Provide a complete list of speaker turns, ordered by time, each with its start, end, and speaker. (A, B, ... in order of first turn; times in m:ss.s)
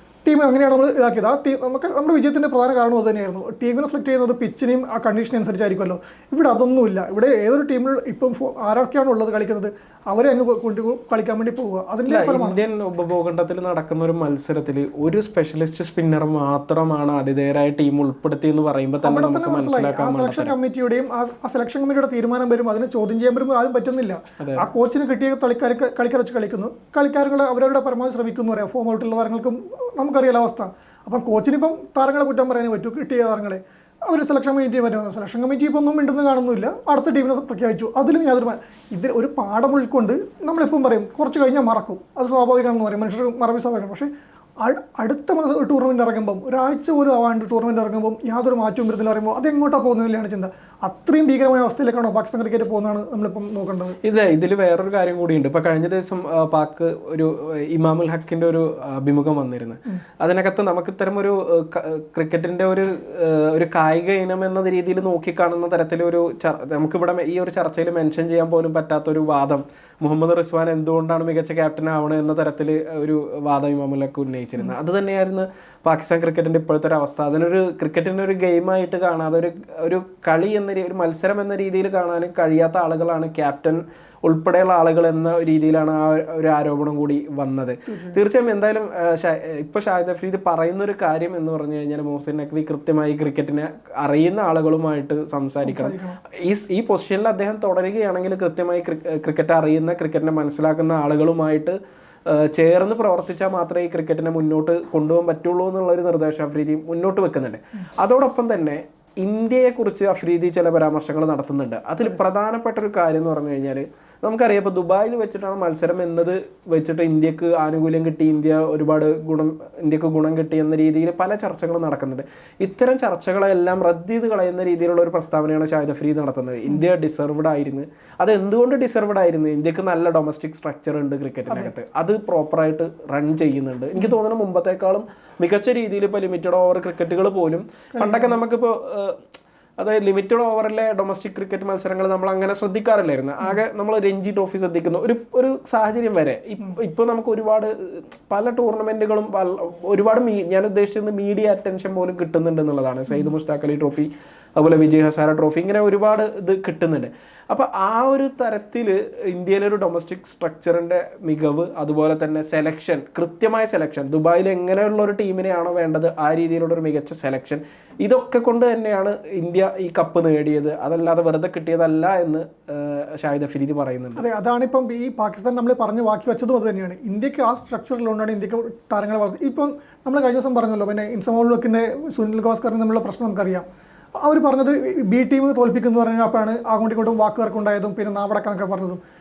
0:00.2-0:12.6 A
0:12.1-0:20.5 B
0:19.0-0:44.1 A
0:24.4-0:24.7 B
0:44.6-0:54.0 A
0:54.0-2:19.2 B
1:27.9-1:28.2 A
1:35.6-1:36.2 A
2:11.5-2:11.7 A
2:17.9-2:18.4 A
2:19.8-2:54.2 B
2:33.1-2:33.3 A
2:54.2-3:03.7 A
3:04.2-3:09.0 A